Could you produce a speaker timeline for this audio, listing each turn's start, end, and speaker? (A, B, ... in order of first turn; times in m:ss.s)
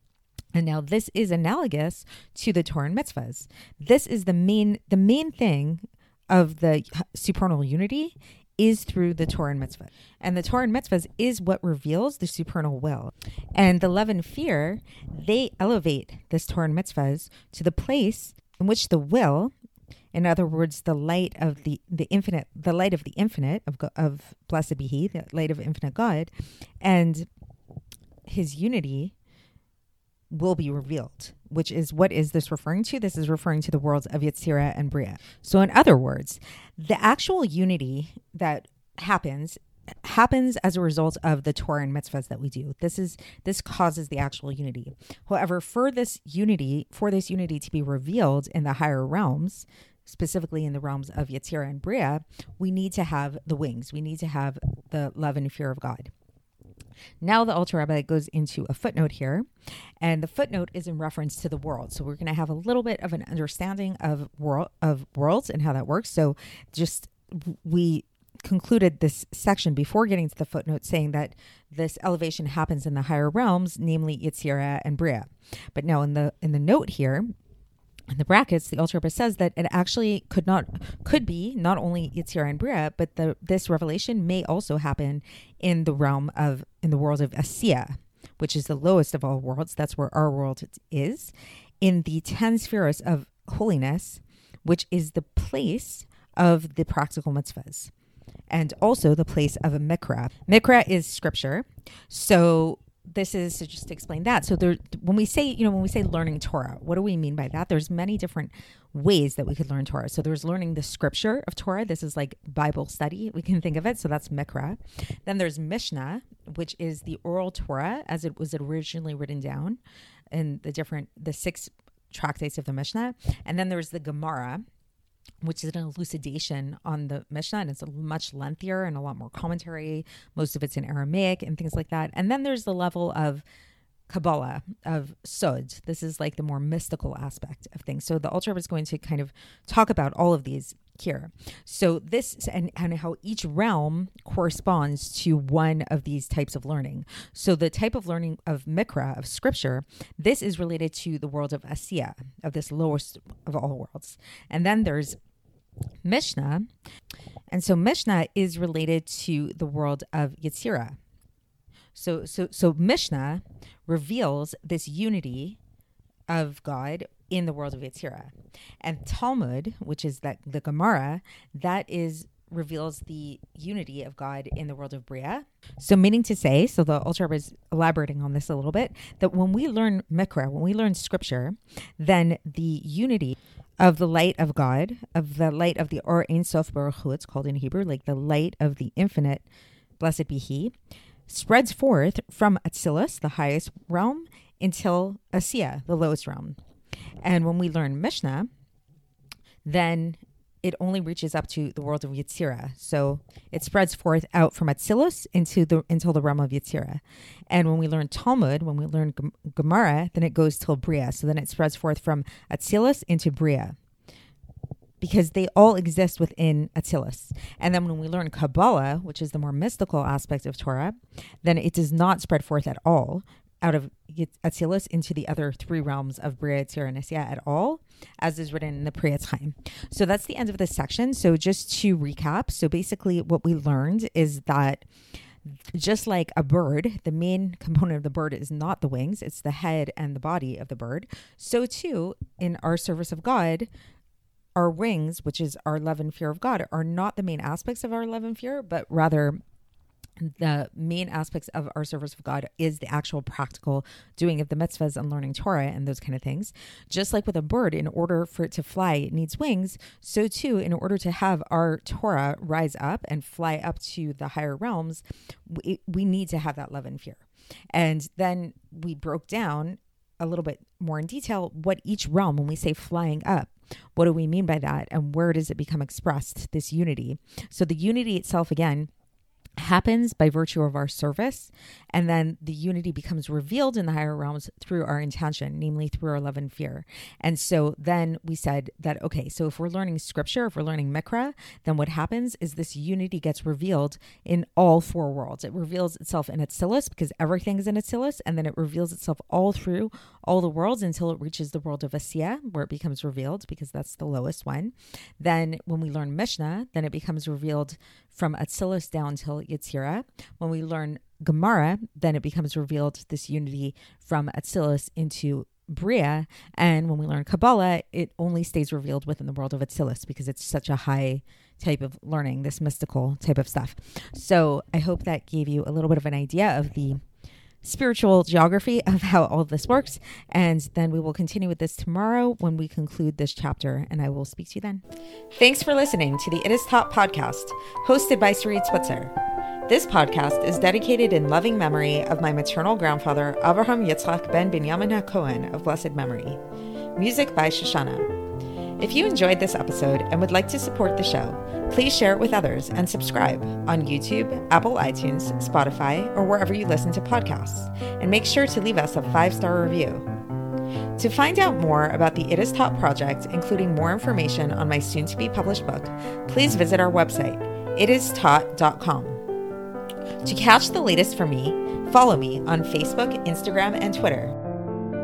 0:00.5-0:19.5 A
0:20.1-0:26.3 A
0:26.8-0:27.3 A
0:28.3-0:29.1 A
0:30.3-0:56.1 A
0:57.2-0:59.4 A
1:00.0-1:17.3 A
1:18.1-1:37.9 A
1:38.5-1:59.8 A
2:00.3-2:04.6 A
2:05.4-2:13.4 A
2:14.1-2:35.2 A
2:36.0-2:36.7 A
2:37.5-2:41.0 A
2:41.9-2:45.6 A
2:46.3-3:09.4 A
3:10.0-3:10.7 A
3:11.3-3:16.6 A
3:17.2-3:18.5 A
3:19.6-3:33.8 A
3:35.0-3:54.9 A
3:55.4-4:03.7 A
4:04.6-4:09.4 A
4:10.2-4:38.9 A
4:39.6-5:27.0 A
5:27.6-5:34.8 A
5:35.3-5:39.1 A
5:39.7-5:46.4 A
5:47.0-5:48.1 A
5:48.8-6:00.0 A
6:01.0-6:09.2 A
6:10.2-6:14.3 A